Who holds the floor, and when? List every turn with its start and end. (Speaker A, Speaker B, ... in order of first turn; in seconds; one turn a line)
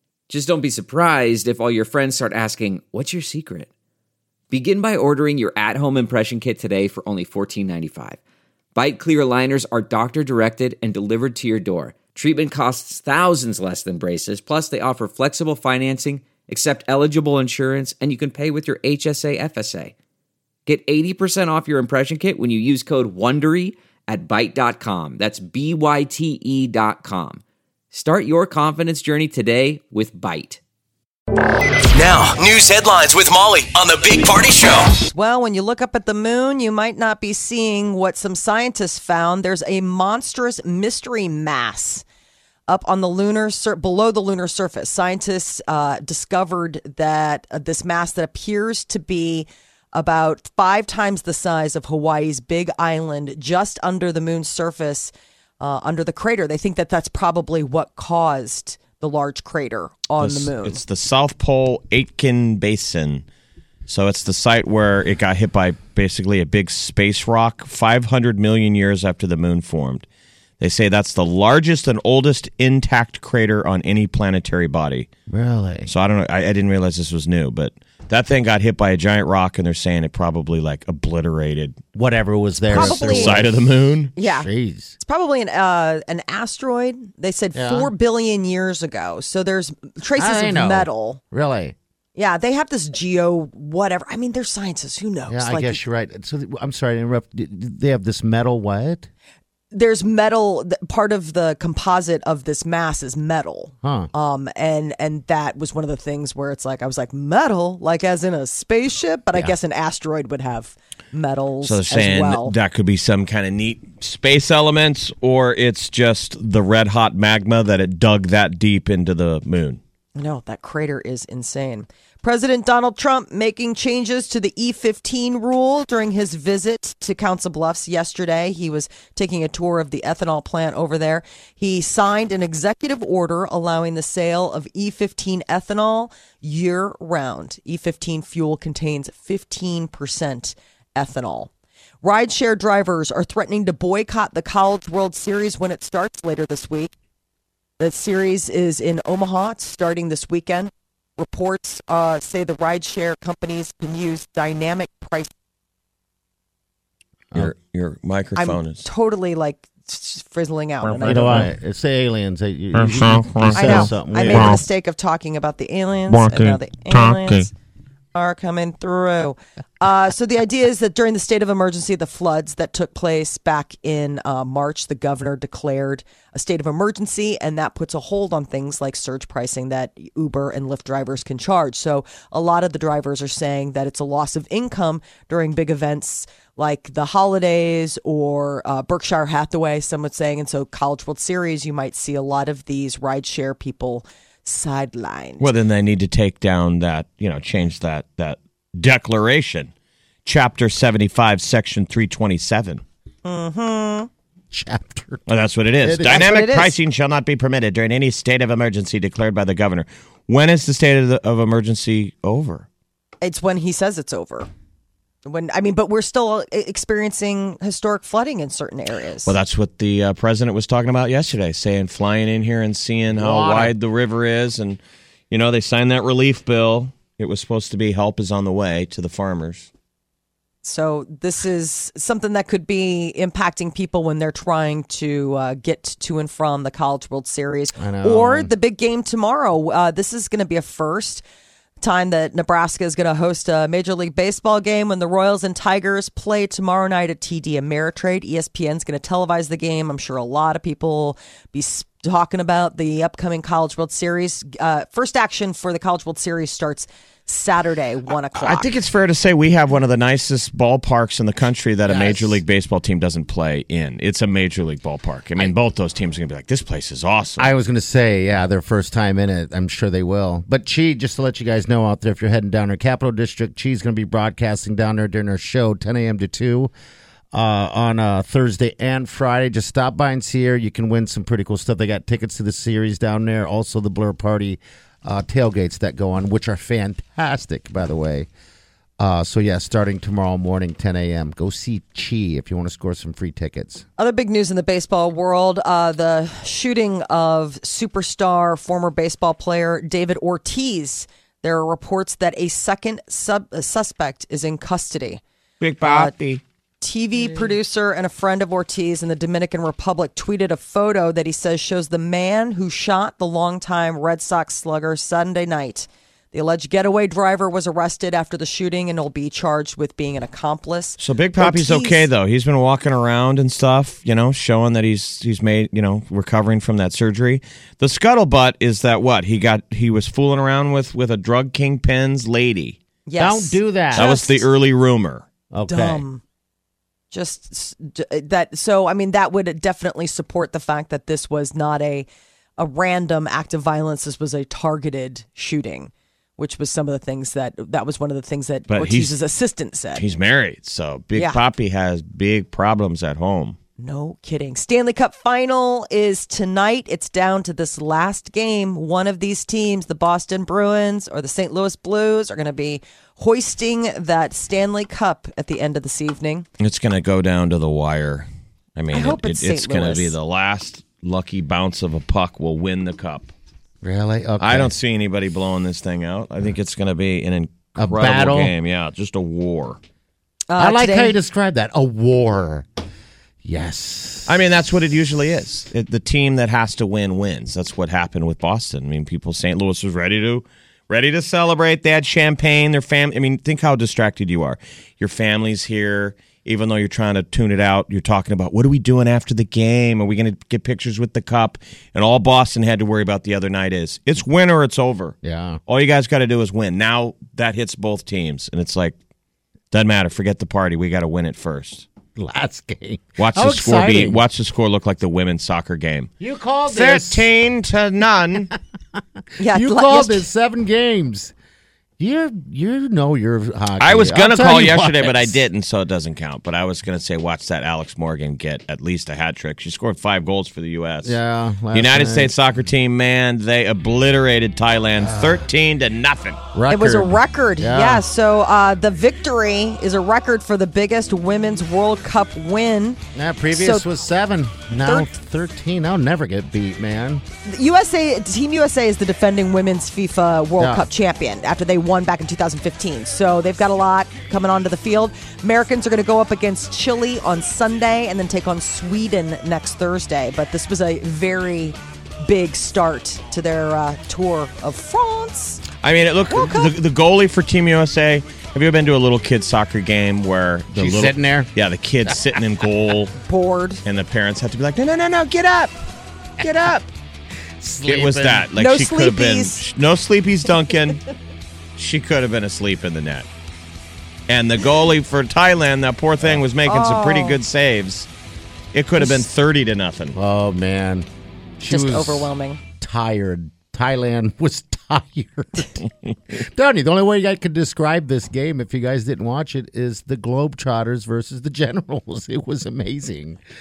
Speaker A: 0.3-3.7
Speaker A: 4.5-8.2
Speaker A: 8.7-19.9
Speaker A: 20.6-30.6
Speaker B: 31.9-34.9
Speaker C: 35.1-42.0
Speaker C: 42.7-60.8
Speaker D: 60.2-63.2
Speaker D: 63.9-70.0
Speaker D: 70.6-75.1
Speaker E: 75.3-75.9
Speaker D: 75.9-81.8
Speaker E: 81.9-85.0
Speaker D: 82.7-84.1
Speaker C: 82.7-83.4
Speaker C: 84.2-91.2
Speaker E: 87.5-87.9
Speaker E: 90.2-91.8
Speaker C: 92.2-95.8
Speaker E: 95.3-99.1
Speaker C: 99.7-112.5
Speaker E: 103.8-104.1
Speaker D: 111.6-119.8
Speaker C: 120.2-141.5
Speaker C: 142.0-146.9
Speaker C: 147.8-155.3
Speaker D: 157.3-158.8
Speaker C: 158.3-161.4
Speaker D: 160.8-161.5
Speaker E: 161.0-164.6
Speaker D: 162.7-164.6
Speaker C: 163.5-167.5
Speaker D: 166.1-167.5
Speaker C: 168.1-195.5
Speaker D: 195.4-199.7
Speaker D: 200.2-202.8
Speaker C: 203.2-204.1
Speaker E: 204.5-205.2
Speaker D: 205.3-212.7
Speaker E: 205.8-206.3
Speaker C: 206.1-206.7
Speaker C: 213.2-214.5
Speaker C: 215.2-219.3
Speaker D: 219.2-224.8
Speaker E: 223.1-223.7
Speaker D: 225.3-229.7
Speaker C: 230.6-241.2
Speaker E: 237.8-238.5
Speaker C: 241.8-258.7
Speaker D: 258.3-267.5
Speaker E: 261.9-262.4
Speaker E: 267.4-276.7
Speaker E: 277.3-288.3
Speaker E: 289.0-293.9
Speaker C: 294.0-305.2
Speaker D: 305.6-306.4
Speaker C: 305.8-306.1
Speaker C: 306.8-322.1
Speaker D: 321.0-332.8
Speaker C: 333.1-334.4
Speaker E: 333.2-334.1
Speaker D: 333.9-335.2
Speaker E: 335.5-336.0
Speaker C: 335.7-336.2
Speaker C: 337.1-342.1
Speaker C: 342.6-350.0
Speaker D: 348.7-349.1
Speaker D: 349.9-353.6
Speaker C: 351.1-351.4
Speaker C: 353.8-366.5
Speaker D: 366.6-373.3
Speaker C: 368.9-370.1
Speaker E: 373.8-374.7
Speaker D: 374.4-379.8
Speaker E: 377.8-378.5
Speaker C: 380.5-381.2
Speaker E: 380.6-382.7
Speaker E: 383.4-384.3
Speaker D: 384.2-405.1
Speaker E: 405.2-405.6
Speaker D: 405.7-408.9
Speaker D: 409.7-411.9
Speaker E: 412.1-414.2
Speaker D: 413.2-416.1
Speaker E: 416.2-417.3
Speaker D: 416.7-418.5
Speaker E: 418.9-421.3
Speaker C: 419.4-420.2
Speaker E: 422.0-425.4
Speaker D: 423.8-431.2
Speaker E: 431.0-432.3
Speaker D: 431.7-436.4
Speaker E: 435.0-435.4
Speaker E: 436.5-438.0
Speaker C: 436.7-443.0
Speaker E: 443.1-447.2
Speaker C: 443.5-443.9
Speaker C: 444.8-445.1
Speaker C: 447.4-465.6
Speaker E: 450.6-450.9
Speaker D: 465.8-473.1
Speaker C: 466.3-466.7
Speaker E: 470.7-471.5
Speaker E: 472.1-472.4
Speaker C: 473.2-473.8
Speaker D: 473.8-475.8
Speaker E: 476.4-476.7
Speaker D: 476.4-476.9
Speaker E: 477.6-478.5
Speaker D: 477.8-481.0
Speaker C: 478.6-479.6
Speaker D: 481.8-483.3
Speaker D: 484.3-488.1
Speaker C: 486.6-487.4
Speaker D: 488.7-490.2
Speaker E: 490.1-491.1
Speaker E: 491.6-503.4
Speaker C: 491.7-492.6